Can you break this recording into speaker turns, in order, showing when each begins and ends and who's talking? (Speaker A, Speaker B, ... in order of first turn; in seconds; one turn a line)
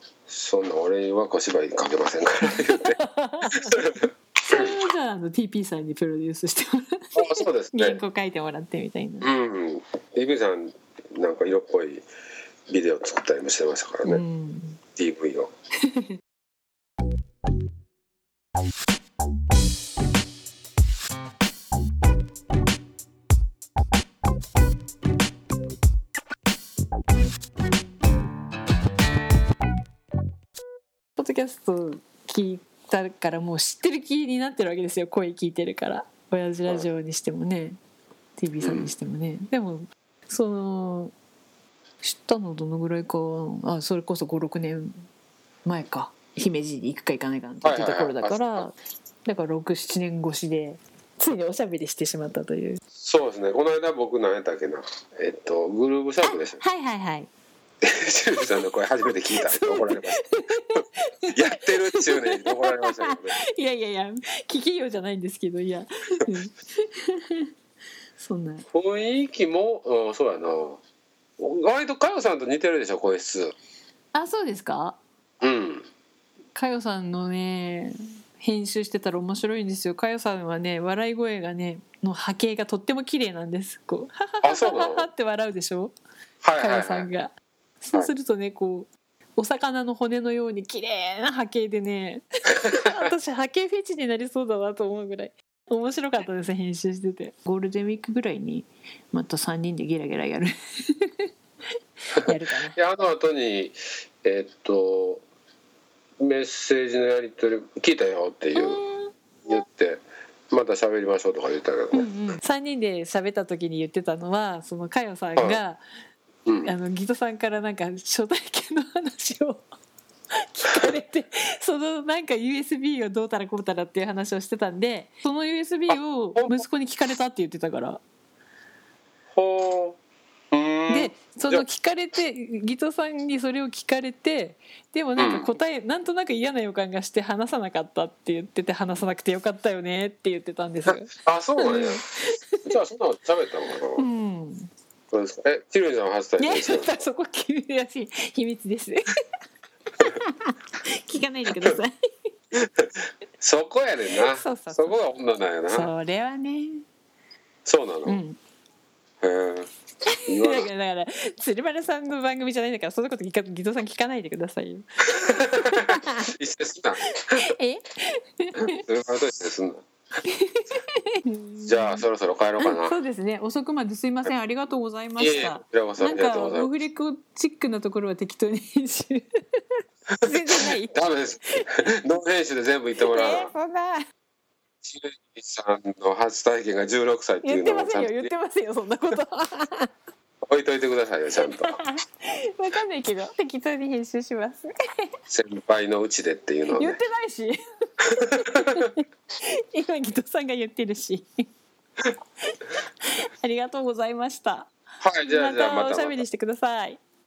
Speaker A: 0.3-3.0
Speaker B: 2.7-3.9
Speaker A: 3.5-4.8
Speaker B: 4.5-9.3
Speaker A: 7.1-8.0
Speaker A: 9.2-12.0
Speaker A: 12.7-14.2
Speaker B: 14.0-14.8
Speaker A: 14.9-15.5
Speaker B: 31.2-37.8
Speaker B: 38.4-41.1
Speaker A: 38.6-38.9
Speaker B: 42.0-45.0
Speaker B: 45.6-48.7
Speaker A: 47.6-48.6
Speaker B: 49.2-52.8
Speaker A: 53.0-56.6
Speaker B: 56.3-57.3
Speaker A: 57.8-60.2
Speaker B: 59.4-67.5
Speaker A: 61.3-63.4
Speaker B: 68.2-68.7
Speaker A: 68.7-70.8
Speaker A: 71.4-73.5
Speaker B: 74.1-75.0
Speaker A: 75.4-75.8
Speaker B: 76.5-85.9
Speaker A: 84.4-85.1
Speaker A: 86.4-87.1
Speaker B: 86.6-101.3
Speaker B: 102.1-102.8
Speaker A: 102.2-105.2
Speaker A: 106.2-108.8
Speaker B: 108.5-109.1
Speaker A: 109.4-112.4
Speaker B: 111.9-115.8
Speaker A: 116.5-116.7
Speaker B: 116.6-119.6
Speaker B: 120.3-128.0
Speaker A: 125.9-126.6
Speaker A: 129.3-130.0
Speaker A: 130.5-131.6
Speaker B: 130.9-142.7
Speaker A: 135.2-135.5
Speaker A: 140.9-142.0
Speaker A: 142.6-144.1
Speaker B: 144.0-144.7
Speaker A: 145.1-146.9
Speaker B: 146.4-149.1
Speaker B: 150.0-151.9
Speaker A: 152.5-155.9
Speaker B: 154.2-155.0
Speaker B: 155.7-156.8
Speaker A: 157.6-158.2
Speaker B: 158.1-158.4
Speaker A: 159.2-159.7
Speaker B: 160.1-166.3
Speaker A: 160.3-160.7
Speaker A: 165.2-167.5
Speaker B: 167.2-168.8
Speaker A: 168.6-169.8
Speaker B: 170.2-172.1
Speaker A: 171.6-172.9
Speaker B: 172.6-179.2
Speaker A: 175.2-176.7
Speaker A: 180.1-183.5
Speaker B: 180.2-180.9
Speaker B: 183.0-184.1
Speaker A: 184.8-188.3
Speaker B: 187.4-189.9
Speaker A: 190.5-191.8
Speaker B: 191.5-194.7
Speaker A: 195.3-197.0
Speaker B: 196.7-197.6
Speaker A: 198.0-198.8
Speaker B: 198.4-201.4
Speaker B: 203.0-204.7
Speaker A: 205.0-206.2
Speaker B: 205.2-207.0